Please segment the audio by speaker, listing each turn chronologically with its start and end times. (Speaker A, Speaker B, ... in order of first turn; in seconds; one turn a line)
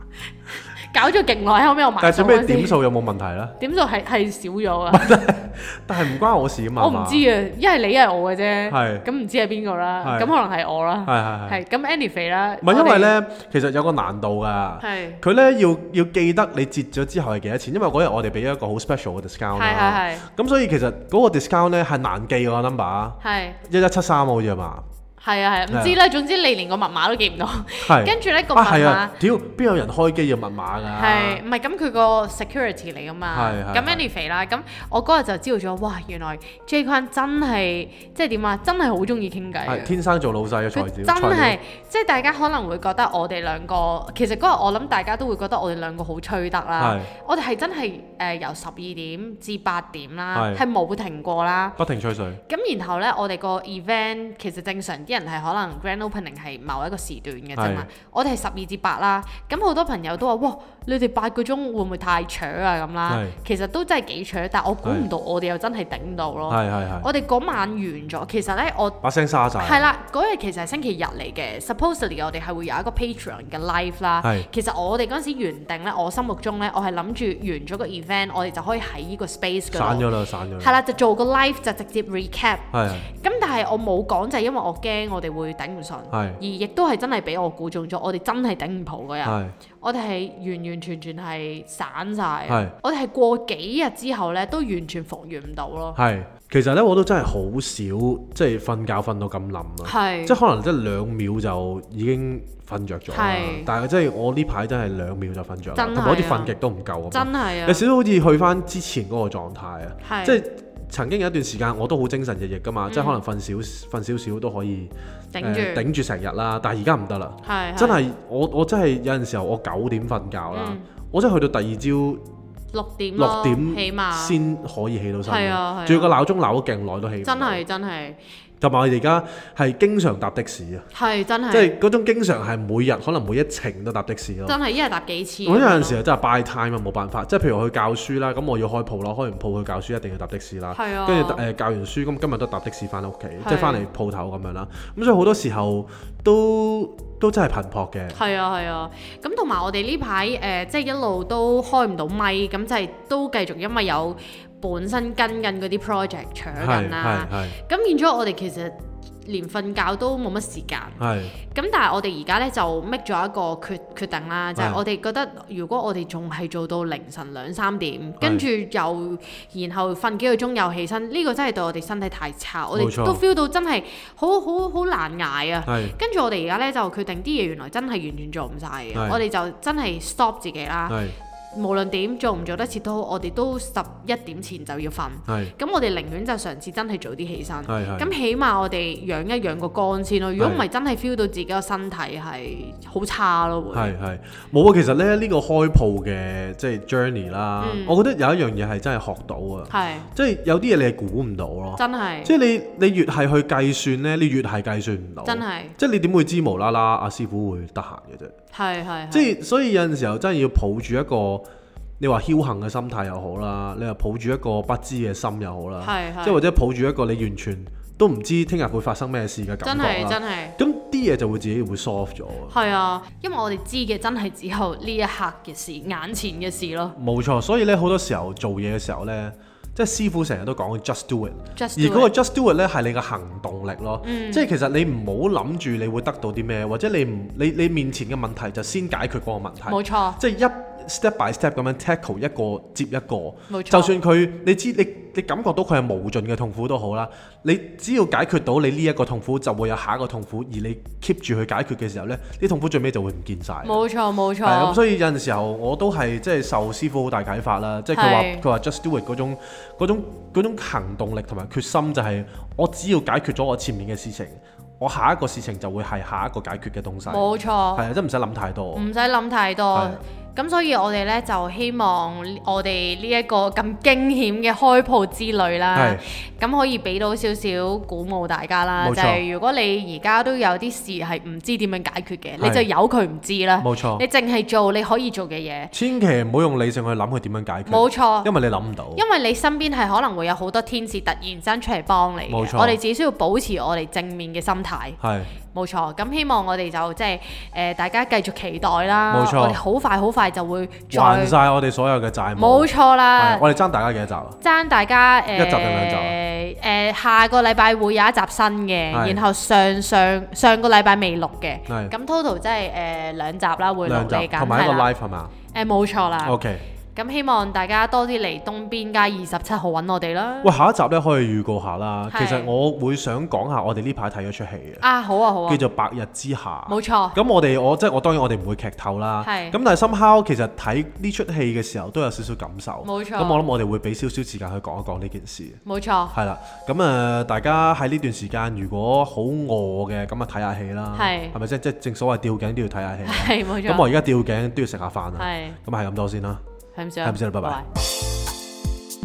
Speaker A: 0.7-2.8
Speaker B: 2.0-3.6
Speaker A: 3.6-5.2
Speaker B: 4.9-7.2
Speaker A: 6.8-13.1
Speaker B: 8.7-9.1
Speaker B: 10.0-10.3
Speaker B: 11.1-11.6
Speaker B: 12.6-24.9
Speaker A: 14.8-15.2
Speaker A: 19.6-20.2
Speaker A: 23.2-23.6
Speaker A: 25.2-29.1
Speaker B: 25.7-25.9
Speaker B: 27.8-31.4
Speaker A: 30.9-39.9
Speaker B: 33.3-34.0
Speaker B: 39.6-41.6
Speaker A: 40.7-51.8
Speaker B: 46.8-47.1
Speaker B: 50.3-50.6
Speaker B: 51.8-52.4
Speaker A: 52.5-69.0
Speaker B: 57.6-57.9
Speaker B: 63.1-63.4
Speaker B: 66.5-67.1
Speaker B: 69.0-69.8
Speaker A: 69.6-96.0
Speaker B: 74.2-74.5
Speaker B: 79.7-80.8
Speaker B: 82.7-83.1
Speaker B: 86.1-86.4
Speaker B: 89.2-89.5
Speaker B: 92.5-92.7
Speaker B: 95.9-122.2
Speaker A: 99.8-100.4
Speaker A: 103.1-103.7
Speaker A: 105.8-106.5
Speaker A: 107.1-107.8
Speaker A: 110.0-110.4
Speaker A: 112.9-113.2
Speaker A: 115.3-115.9
Speaker A: 117.4-118.0
Speaker A: 120.5-120.8
Speaker A: 122.7-124.4
Speaker B: 123.2-127.6
Speaker A: 125.3-126.2
Speaker A: 127.2-128.2
Speaker B: 128.6-130.9
Speaker A: 130.9-131.7
Speaker B: 131.5-134.6
Speaker A: 134.5-136.0
Speaker B: 135.4-148.2
Speaker A: 140.7-141.4
Speaker A: 143.4-143.8
Speaker A: 148.1-181.0
Speaker B: 156.6-157.6
Speaker B: 161.0-161.4
Speaker B: 172.8-173.2
Speaker B: 175.7-175.9
Speaker B: 178.9-179.2
Speaker B: 180.9-181.2
Speaker A: 181.5-193.9
Speaker B: 185.3-185.5
Speaker B: 187.7-188.1
Speaker B: 193.7-208.3
Speaker A: 197.6-198.0
Speaker A: 199.7-200.1
Speaker A: 201.8-202.3
Speaker A: 205.2-205.8
Speaker A: 208.5-209.3
Speaker B: 209.1-211.4
Speaker B: 212.0-222.5
Speaker A: 215.8-216.4
Speaker A: 219.6-220.6
Speaker A: 222.5-226.9
Speaker B: 227.0-253.8
Speaker A: 231.6-232.1
Speaker A: 234.0-234.5
Speaker A: 239.7-240.2
Speaker A: 243.5-243.9
Speaker A: 253.6-254.8
Speaker B: 254.4-267.2
Speaker A: 257.9-258.4
Speaker A: 267.1-267.9
Speaker B: 267.8-268.9
Speaker A: 268.8-285.7
Speaker B: 269.7-270.0
Speaker B: 275.7-276.0
Speaker B: 278.8-279.2
Speaker B: 283.6-284.0
Speaker B: 285.7-289.0
Speaker A: 287.7-288.3
Speaker A: 288.9-295.0
Speaker B: 292.3-292.8
Speaker B: 295.0-295.3
Speaker A: 295.5-301.4
Speaker B: 299.1-299.6
Speaker B: 300.9-304.4
Speaker A: 302.4-303.4
Speaker A: 304.4-314.9
Speaker B: 305.4-306.1
Speaker B: 308.9-309.2
Speaker B: 311.7-311.9
Speaker B: 313.9-315.3
Speaker A: 315.5-316.4
Speaker B: 316.2-316.6
Speaker A: 316.9-320.5
Speaker B: 320.4-324.8
Speaker A: 322.1-322.5
Speaker A: 324.8-325.6
Speaker B: 325.5-335.6
Speaker A: 326.7-327.2
Speaker A: 329.2-329.6
Speaker A: 332.8-333.4
Speaker A: 335.6-336.1
Speaker B: 336.1-346.4
Speaker A: 340.9-341.4
Speaker A: 343.0-343.9
Speaker A: 345.2-345.6
Speaker A: 346.8-347.6
Speaker B: 347.0-347.6